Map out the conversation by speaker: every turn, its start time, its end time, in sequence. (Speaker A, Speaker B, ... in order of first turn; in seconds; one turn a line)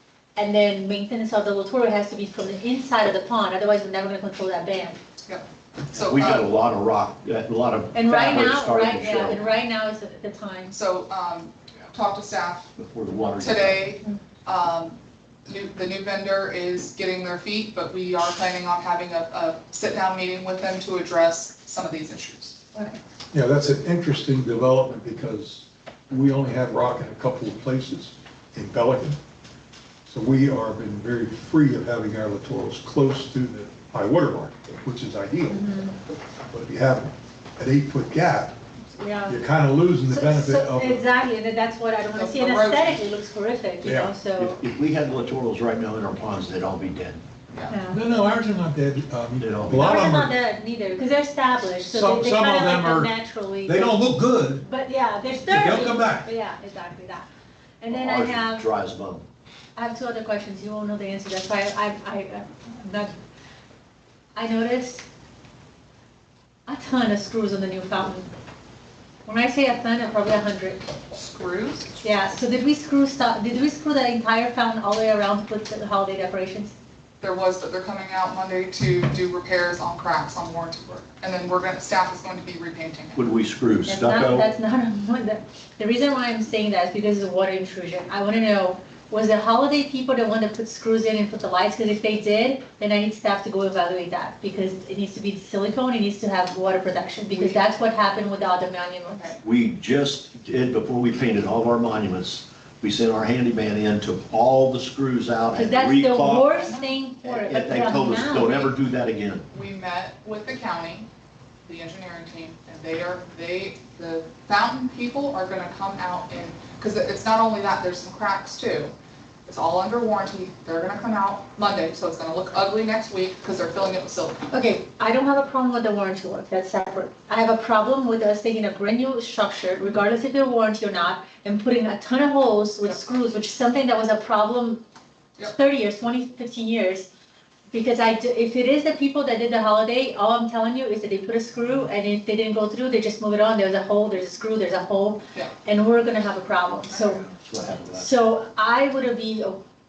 Speaker A: 0.4-5.0
Speaker B: 5.3-6.5
Speaker C: 5.9-9.4
Speaker A: 7.9-10.8
Speaker B: 10.7-12.7
Speaker C: 12.8-13.9
Speaker B: 13.4-22.6
Speaker A: 22.7-23.0
Speaker D: 23.3-29.2
Speaker D: 30.1-35.6
Speaker A: 35.5-36.0
Speaker D: 36.5-38.6
Speaker A: 39.0-39.4
Speaker D: 39.3-41.0
Speaker A: 40.1-44.6
Speaker B: 42.1-43.0
Speaker D: 43.8-44.1
Speaker C: 44.4-47.2
Speaker B: 47.5-47.8
Speaker A: 47.7-48.0
Speaker D: 47.9-50.3
Speaker C: 49.4-50.0
Speaker A: 49.7-54.0
Speaker D: 51.8-53.1
Speaker D: 53.6-54.6
Speaker A: 54.6-57.3
Speaker D: 55.5-56.3
Speaker A: 57.8-58.7
Speaker C: 57.9-59.2
Speaker A: 59.8-63.1
Speaker A: 64.4-65.1
Speaker A: 66.7-68.3
Speaker A: 69.3-70.9
Speaker B: 71.1-72.0
Speaker A: 72.0-76.7
Speaker B: 77.2-83.2
Speaker C: 83.2-84.5
Speaker A: 83.9-99.3
Speaker B: 97.3-97.7
Speaker B: 99.1-99.4
Speaker C: 99.4-106.5
Speaker A: 105.5-108.7
Speaker B: 106.5-106.9
Speaker C: 107.2-109.5
Speaker B: 109.5-111.1
Speaker B: 111.7-118.9
Speaker B: 119.5-124.4
Speaker A: 124.5-134.8
Speaker A: 135.4-137.1
Speaker A: 137.7-147.3
Speaker B: 146.9-147.2
Speaker C: 147.3-148.1
Speaker A: 147.9-149.6